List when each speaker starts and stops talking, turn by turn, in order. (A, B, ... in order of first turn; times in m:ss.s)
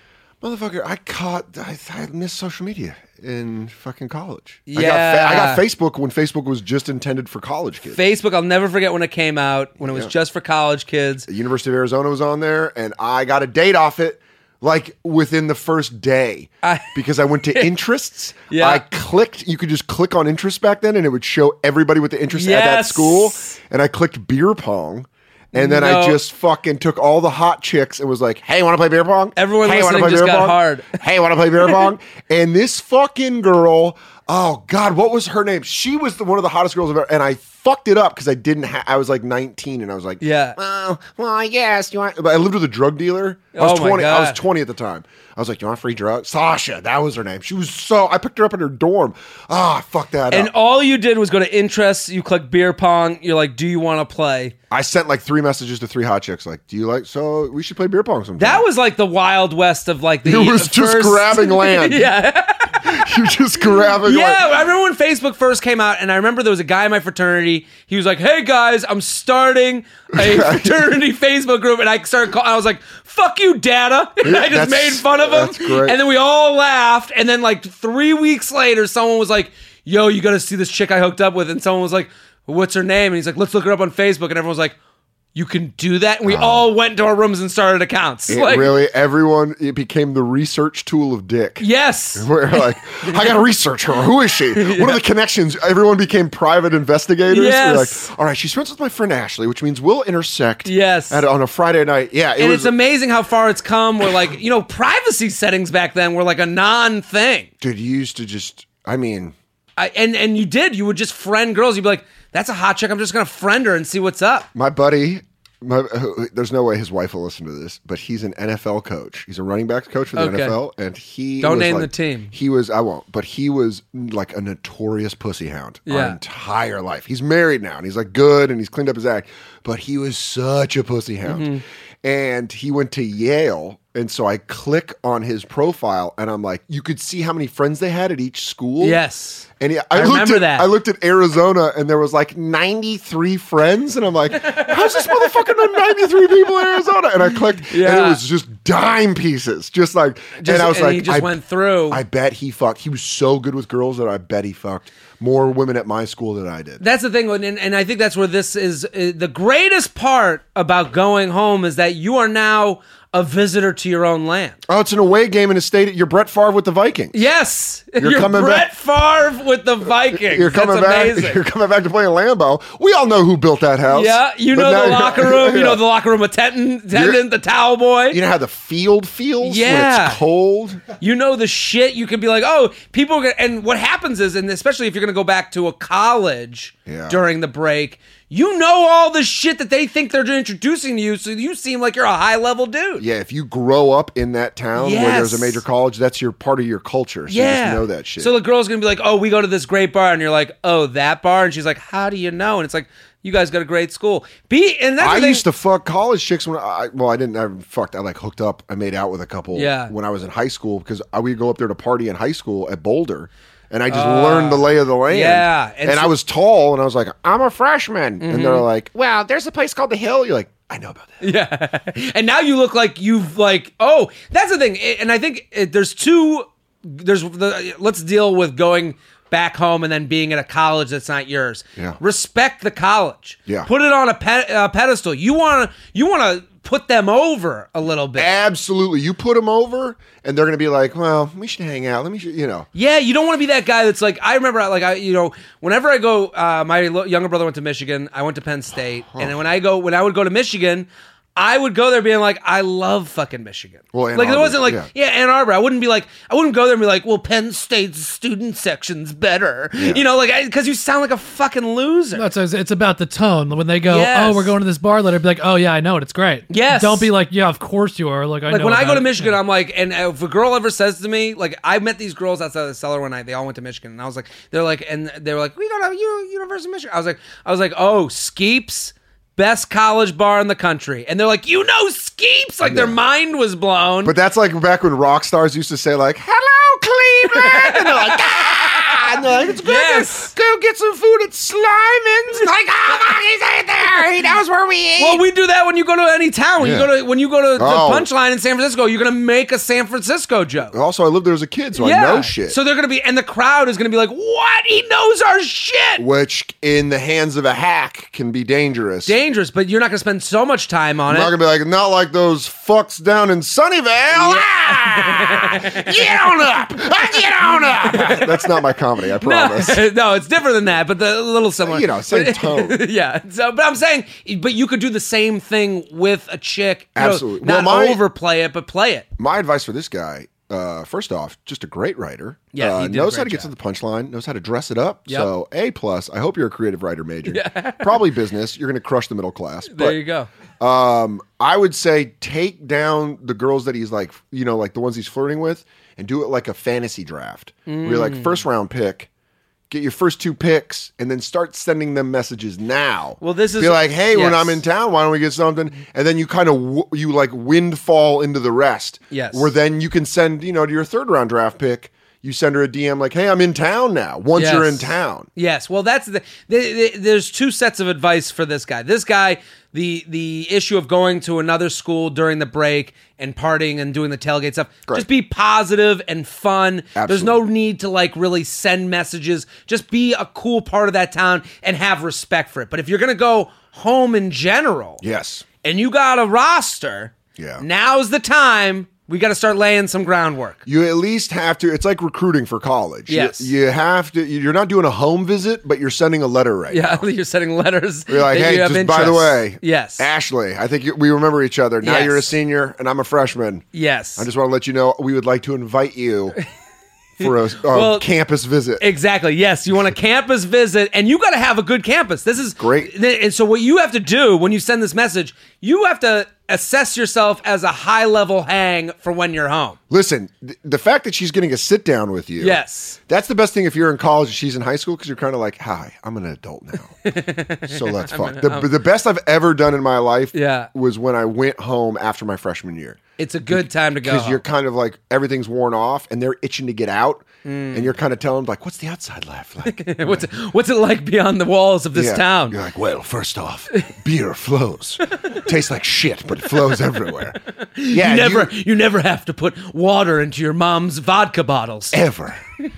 0:00.4-0:08.0 A
0:04.7-0:05.6 B
0:07.9-0:11.3 B
0:09.8-0:10.1 A
0:11.3-0:50.5 A
0:16.6-0:17.0 B
0:18.5-0:18.8 B
0:22.3-0:23.6 B
0:25.5-0:26.2 B
0:29.4-0:31.0 B
0:40.2-0:40.6 B
0:43.6-0:44.4 B
0:50.3-0:54.6 B
0:54.7-0:58.6 A
0:58.4-1:03.0 B
1:00.2-1:02.1 A
1:02.8-1:04.5 A
1:04.0-1:24.8 B
1:10.2-1:10.9 A
1:14.2-1:16.0 A
1:25.4-1:28.8 B
1:26.2-1:26.7 A
1:28.3-1:42.7 A
1:31.6-1:33.3 B
1:34.5-1:35.0 B
1:37.3-1:38.1 B
1:40.6-1:41.2 B
1:42.4-1:47.5 B
1:47.6-1:49.4 A
1:49.8-1:54.5 B
1:54.6-2:11.5 A
2:00.2-2:00.6 B
2:01.4-2:02.3 B
2:05.9-2:06.2 B
2:11.2-2:11.6 B
2:12.0-2:19.0 A
2:18.8-2:20.7 B
2:19.6-2:36.8 A
2:24.4-2:25.6 B
2:27.6-2:28.2 B
2:30.4-2:32.0 B
2:36.8-2:44.6 B
2:44.7-2:47.2 A
2:47.1-2:51.4 B
2:48.0-2:48.7 A
2:50.1-2:55.8 A
2:53.9-2:58.2 B
2:56.9-2:57.2 A
2:58.1-3:00.8 A
2:59.4-3:00.2 B
3:01.0-3:13.0 B
3:06.9-3:07.2 A
3:13.0-3:18.3 A
3:14.8-3:15.6 B
3:17.3-3:25.4 B
3:25.0-3:41.2 A
3:29.5-3:29.9 B
3:33.9-3:36.1 B
3:38.2-3:38.7 B
3:41.2-3:58.3 B
3:58.2-4:02.7 A
4:02.7-4:22.3 B
4:13.9-4:14.9 A
4:19.8-4:20.0 A
4:22.2-4:29.4 C
4:23.9-4:24.5 B
4:26.5-4:27.1 B
4:28.5-4:44.2 B
4:42.6-4:43.0 A
4:44.0-4:55.2 A
4:47.3-4:50.3 B
4:55.0-5:00.7 B
4:56.6-4:56.9 A
4:57.6-4:58.1 A
5:00.7-5:02.6 A
5:01.8-5:06.0 B
5:06.0-5:09.2 A
5:09.1-5:11.3 B
5:11.1-5:19.8 A
5:14.1-5:18.5 B
5:19.2-5:29.1 B
5:21.6-5:22.8 A
5:27.0-5:28.0 A
5:29.2-5:40.0 A
5:32.5-5:33.5 B
5:37.3-5:38.0 B
5:39.7-5:40.3 B
5:40.6-5:49.1 A
5:47.7-5:48.4 B
5:49.7-6:05.3 A
5:53.2-5:54.6 B
5:59.1-5:59.5 B
6:04.4-6:25.0 B
6:17.0-6:17.4 A
6:25.0-6:25.5 A
6:25.6-6:30.6 B
6:27.4-6:27.6 A
6:30.6-6:37.1 A
6:33.1-6:33.5 B
6:36.7-6:40.1 B
6:38.1-6:43.6 A
6:41.8-6:42.3 B
6:43.7-6:44.3 B
6:44.2-6:46.4 A
6:47.2-6:48.8 A
6:47.2-6:48.1 B
6:48.8-6:59.8 B
6:52.6-6:52.9 A
6:59.9-7:07.0 A
7:02.4-7:03.0 B
7:07.0-7:08.7 B
7:07.7-7:13.0 A
7:10.3-7:10.7 B
7:13.2-7:14.4 B
7:13.5-7:20.3 A
7:17.4-7:17.9 B
7:19.6-7:22.6 B
7:21.9-7:27.4 A
7:27.6-7:32.0 B
7:27.9-7:28.5 A
7:31.9-7:32.4 A